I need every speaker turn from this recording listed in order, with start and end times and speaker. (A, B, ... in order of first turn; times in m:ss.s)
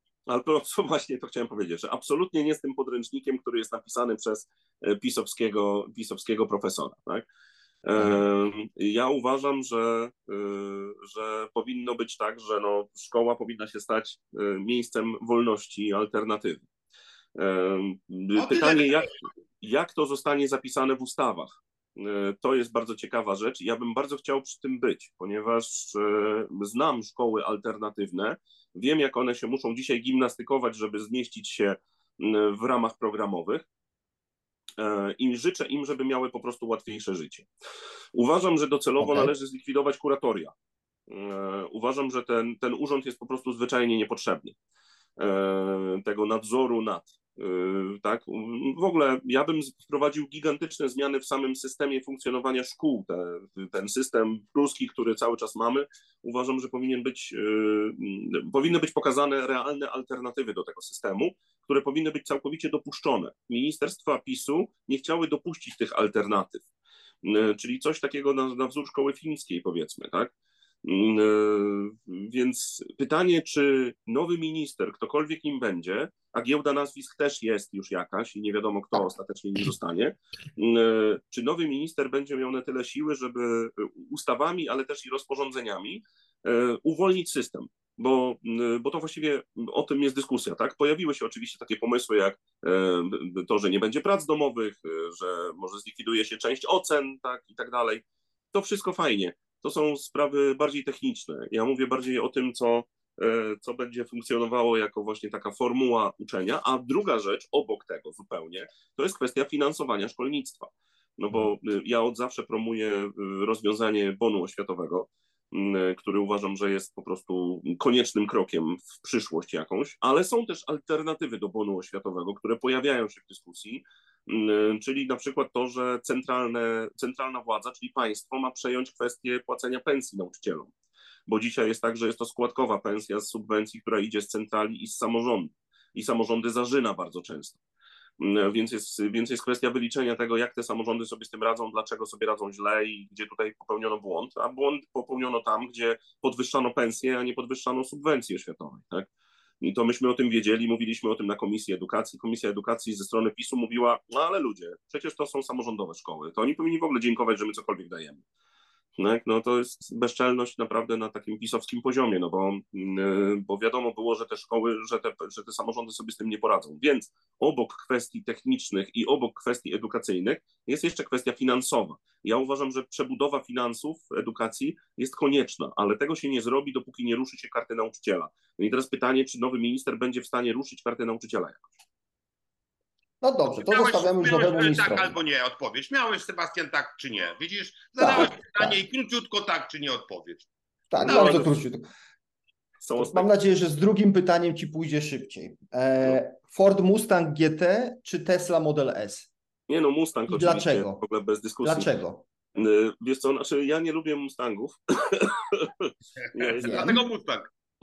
0:00.3-0:07.2 A
0:07.8-0:16.7 A
0:08.0-0:08.2 B
0:17.4-0:33.6 A
0:18.4-0:19.1 C
0:34.8-0:37.5 A
0:38.1-0:40.5 A
0:39.0-0:39.3 B
0:41.1-0:44.5 A
0:45.2-1:06.6 A
1:07.2-1:10.3 A
1:10.8-2:10.7 A
2:11.3-2:17.6 A
2:18.2-2:29.1 A
2:29.6-2:38.2 A
2:39.0-3:01.7 A
3:03.2-3:05.1 B
3:03.4-3:10.5 C
3:08.0-3:08.8 B
3:10.9-3:11.8 B
3:11.0-3:11.5 A
3:11.0-3:11.4 C
3:12.8-3:13.3 A
3:13.0-3:19.3 B
3:19.7-3:21.9 A
3:20.3-3:21.0 B
3:21.6-3:22.2 B
3:22.5-3:26.9 A
3:26.2-3:27.5 C
3:26.6-3:27.0 B